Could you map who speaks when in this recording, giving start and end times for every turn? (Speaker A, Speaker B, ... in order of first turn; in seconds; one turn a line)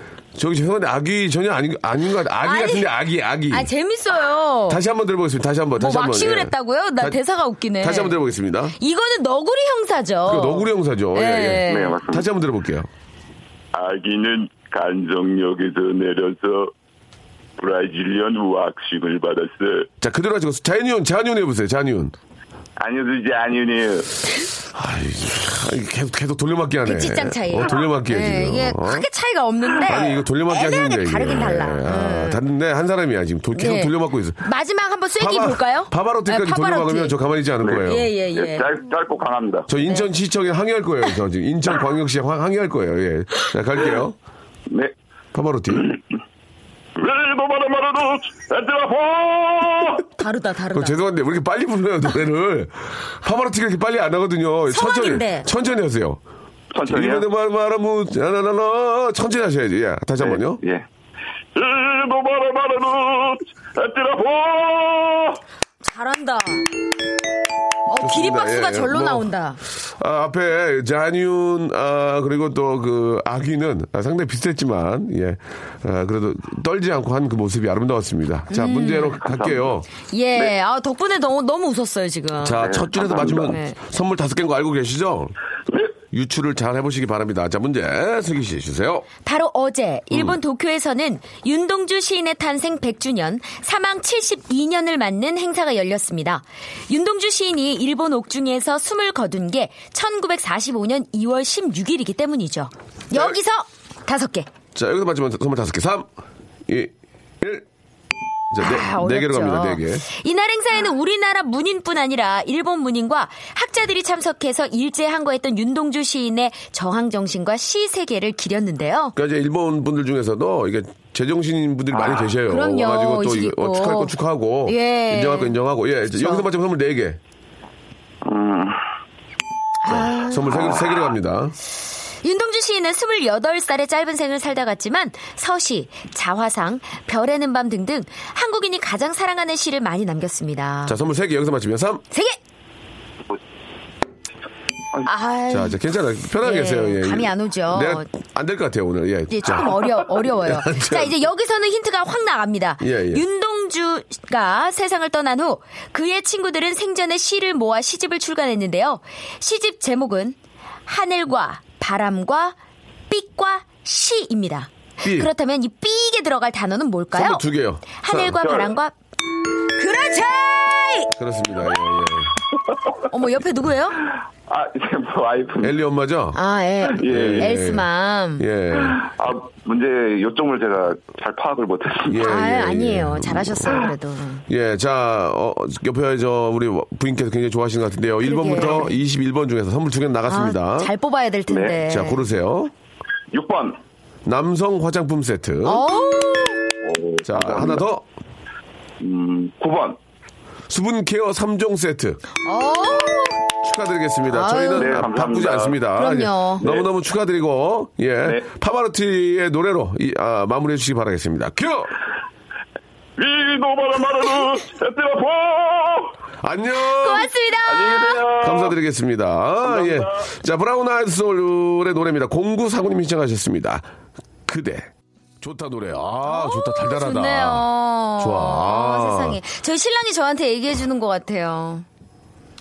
Speaker A: 0.3-3.7
Speaker B: 2.4-2.9
Speaker B: 3.5-4.8
Speaker A: 4.7-7.2
Speaker B: 5.8-8.2
Speaker A: 7.8-8.8
Speaker B: 8.8-12.0
Speaker A: 10.2-12.9
Speaker C: 11.6-12.3
Speaker C: 13.7-16.7
Speaker C: 17.6-19.9
Speaker A: 20.0-22.1
Speaker C: 22.8-24.1
Speaker A: 24.7-29.1
Speaker B: 26.8-32.4
Speaker A: 29.8-34.4
Speaker B: 33.5-37.1
Speaker A: 35.1-38.1
Speaker C: 37.6-39.6
Speaker B: 37.8-38.7
Speaker A: 39.7-44.2
Speaker A: 45.3-45.9
Speaker C: 47.0-50.0
Speaker B: 50.2-51.0
Speaker A: 50.7-56.2
Speaker B: 54.7-55.5
Speaker C: 56.7-57.2
Speaker A: 56.9-60.6
Speaker C: 60.2-60.9
Speaker C: 61.5-65.4
Speaker B: 65.8-66.7
Speaker B: 67.9-69.6
Speaker A: 68.0-79.9
Speaker B: 78.5-79.2
Speaker C: 79.2-79.7
Speaker B: 80.1-83.8
Speaker A: 82.4-85.3
Speaker C: 82.5-83.5
Speaker A: 86.1-89.0
Speaker B: 89.2-104.5
Speaker A: 90.1-90.4
Speaker A: 103.1-103.4
Speaker A: 104.7-106.1
Speaker A: 106.7-107.6
Speaker A: 108.5-110.0
Speaker B: 108.6-119.1
Speaker A: 119.1-127.2
Speaker B: 122.5-124.1
Speaker B: 124.6-126.4
Speaker C: 128.2-128.8
Speaker B: 129.8-130.7
Speaker A: 129.9-131.6
Speaker B: 132.2-141.0
Speaker A: 140.9-142.0
Speaker B: 142.1-142.4
Speaker B: 145.0-145.8
Speaker A: 145.5-151.1
Speaker B: 146.4-148.1
Speaker B: 149.3-162.6
Speaker A: 152.8-153.2
Speaker B: 163.1-168.9
Speaker A: 165.0-165.3
Speaker A: 167.1-168.4
Speaker C: 168.4-168.7
Speaker B: 169.8-171.1
Speaker A: 171.2-172.3
Speaker B: 173.1-174.0
Speaker C: 174.5-175.7
Speaker A: 175.6-176.4
Speaker B: 176.3-178.4
Speaker C: 177.0-177.5
Speaker A: 177.0-177.9
Speaker A: 178.4-179.0
Speaker C: 178.8-182.2
Speaker A: 182.0-183.9
Speaker B: 182.2-184.4
Speaker A: 184.5-190.9
Speaker B: 188.2-189.0
Speaker B: 190.3-192.2
Speaker C: 191.5-191.8
Speaker A: 191.9-192.7
Speaker C: 193.3-193.8
Speaker A: 194.2-195.8
Speaker B: 195.6-196.6
Speaker C: 196.8-197.8
Speaker A: 197.2-198.0
Speaker C: 199.0-200.0
Speaker A: 200.7-202.2
Speaker B: 202.4-203.4
Speaker A: 203.6-211.9
Speaker B: 204.3-205.0
Speaker C: 204.8-205.8
Speaker B: 205.9-206.6
Speaker C: 213.2-216.1
Speaker A: 216.4-217.3
Speaker B: 217.0-218.2
Speaker C: 217.6-218.7
Speaker A: 218.4-223.8
Speaker C: 219.7-220.1
Speaker A: 224.4-224.9
Speaker A: 225.4-229.4
Speaker B: 226.2-231.8